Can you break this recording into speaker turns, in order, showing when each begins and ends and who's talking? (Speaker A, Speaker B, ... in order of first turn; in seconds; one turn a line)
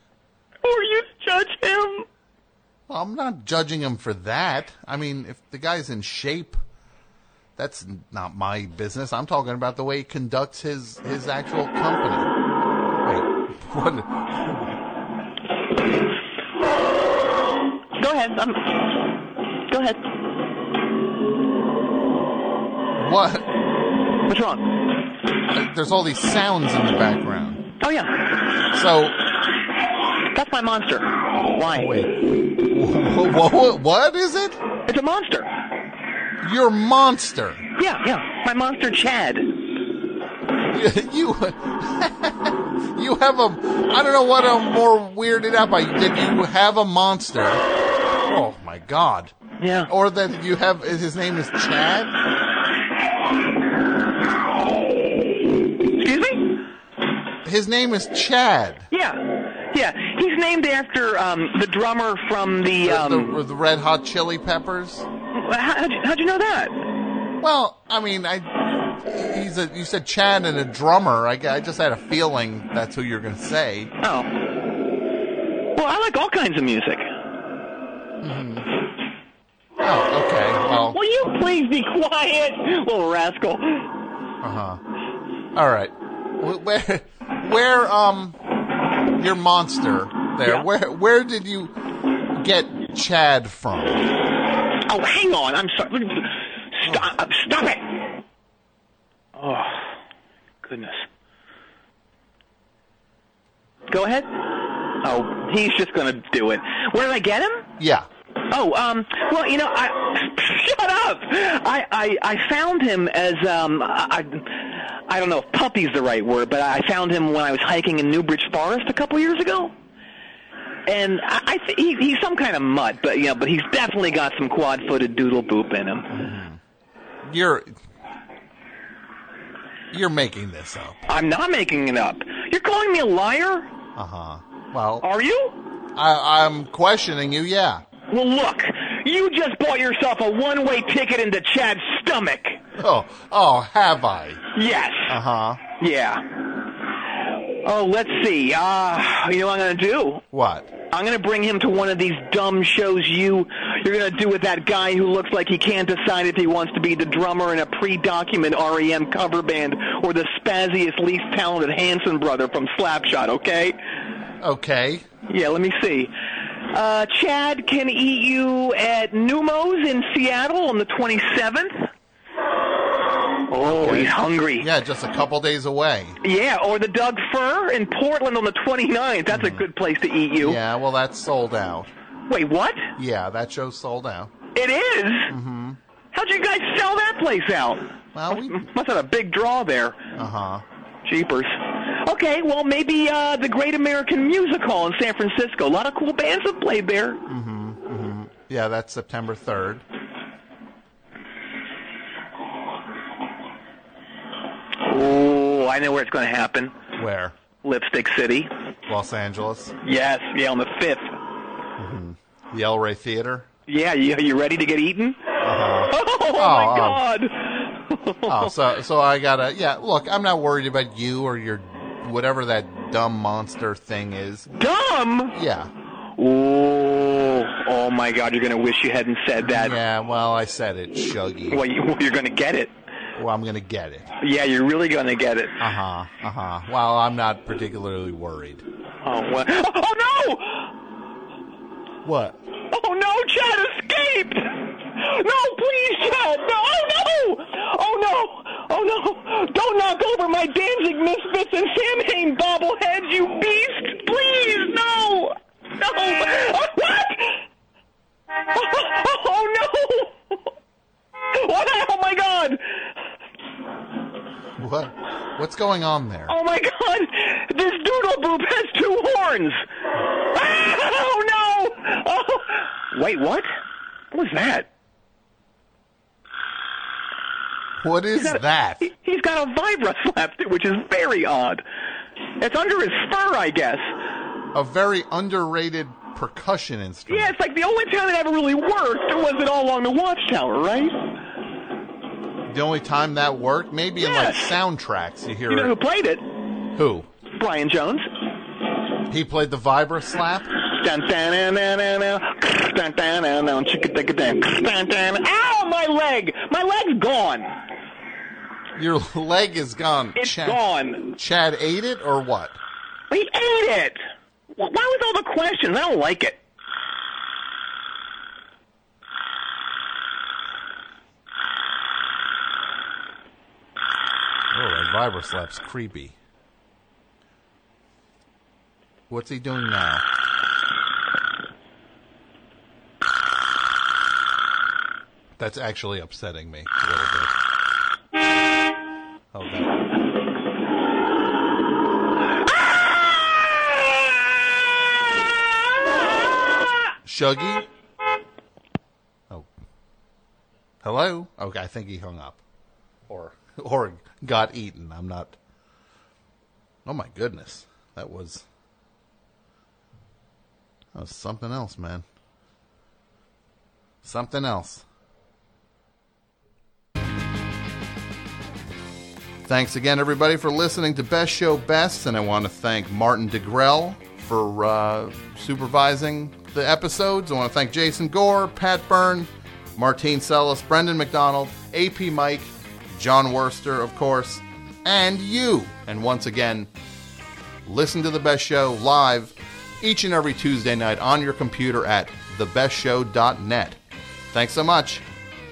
Speaker A: 0.6-2.1
Speaker B: 2.9-6.6
Speaker B: 7.6-12.3
Speaker B: 13.0-14.8
Speaker A: 18.0-18.9
Speaker A: 19.7-20.0
Speaker B: 23.0-23.5
Speaker A: 24.3-24.7
Speaker B: 25.5-27.6
Speaker A: 27.8-28.3
Speaker B: 28.7-29.2
Speaker A: 30.3-32.1
Speaker B: 31.7-34.6
Speaker A: 34.9-35.5
Speaker B: 36.4-37.7
Speaker A: 37.8-39.5
Speaker B: 40.7-49.3
Speaker A: 49.6-49.9
Speaker B: 49.9-52.2
Speaker A: 55.7-56.6
Speaker B: 57.5-58.9
Speaker A: 58.9-63.4
Speaker B: 62.8-65.1
Speaker A: 65.3-66.8
Speaker B: 67.4-73.9
Speaker A: 74.0-74.3
Speaker A: 75.8-77.1
Speaker B: 78.2-78.7
Speaker B: 79.8-81.0
Speaker A: 80.9-83.9
Speaker B: 84.4-84.8
Speaker B: 85.5-88.4
Speaker B: 89.2-91.8
Speaker B: 92.3-94.1
Speaker A: 94.9-98.1
Speaker A: 99.4-100.0
Speaker A: 100.6-101.0
Speaker A: 103.9-104.4
Speaker A: 104.9-107.7
Speaker B: 107.8-108.1
Speaker A: 108.5-119.7
Speaker A: 120.9-126.1
Speaker B: 126.1-126.6
Speaker B: 127.2-127.7
Speaker B: 129.9-131.0
Speaker A: 131.1-133.7
Speaker B: 134.0-135.1
Speaker A: 135.0-135.6
Speaker B: 136.0-137.8
Speaker A: 138.1-142.6
Speaker B: 142.8-144.4
Speaker A: 144.5-145.2
Speaker B: 145.1-145.6
Speaker A: 145.8-146.3
Speaker A: 147.6-150.2
Speaker B: 150.3-150.7
Speaker A: 150.9-163.8
Speaker B: 164.4-165.0
Speaker A: 165.3-166.1
Speaker A: 166.6-171.9
Speaker A: 173.5-174.7
Speaker B: 173.6-176.2
Speaker A: 176.2-180.6
Speaker B: 179.3-179.7
Speaker B: 180.4-181.9
Speaker A: 182.3-182.9
Speaker B: 183.0-184.3
Speaker A: 184.5-185.3
Speaker B: 185.3-185.8
Speaker A: 186.1-190.1
Speaker B: 188.2-188.7
Speaker B: 190.2-190.6
Speaker A: 191.0-197.2
Speaker B: 197.3-199.8
Speaker A: 204.8-206.8
Speaker B: 207.0-207.4
Speaker A: 207.6-208.5
Speaker B: 208.9-209.8
Speaker A: 209.8-211.2
Speaker B: 211.8-213.5
Speaker A: 213.7-215.3
Speaker B: 215.4-217.0
Speaker A: 215.9-218.6
Speaker B: 218.3-224.5
Speaker A: 224.5-225.3
Speaker B: 225.3-225.7
Speaker A: 226.2-229.8
Speaker B: 229.4-231.6
Speaker A: 231.5-232.7
Speaker B: 233.2-234.1
Speaker A: 234.2-235.6
Speaker B: 235.6-238.6
Speaker A: 239.0-240.7
Speaker B: 242.1-242.4
Speaker A: 242.7-257.4
Speaker A: 258.3-260.4
Speaker A: 261.3-262.6
Speaker B: 264.6-266.3
Speaker A: 266.3-269.6
Speaker A: 270.3-273.5
Speaker A: 274.1-274.7
Speaker B: 277.8-278.9
Speaker A: 278.1-281.6
Speaker A: 282.4-283.9
Speaker B: 284.5-287.4
Speaker A: 287.1-290.9
Speaker B: 292.5-295.7
Speaker A: 294.0-294.5
Speaker A: 295.5-296.2
Speaker B: 296.8-297.1
Speaker A: 297.3-298.1
Speaker B: 299.1-300.5
Speaker A: 300.7-307.6
Speaker B: 308.8-310.6
Speaker A: 310.2-311.1
Speaker B: 311.1-312.6
Speaker A: 313.1-314.0
Speaker A: 314.5-316.4
Speaker B: 324.5-326.2
Speaker B: 329.1-330.1
Speaker B: 335.4-337.4
Speaker B: 339.3-339.8
Speaker B: 347.1-347.7
Speaker B: 350.8-352.4
Speaker B: 353.1-355.4
Speaker B: 356.9-358.5
Speaker B: 360.9-362.1
Speaker B: 364.0-364.9
Speaker B: 369.5-386.7
Speaker B: 387.7-393.8
Speaker B: 394.3-395.0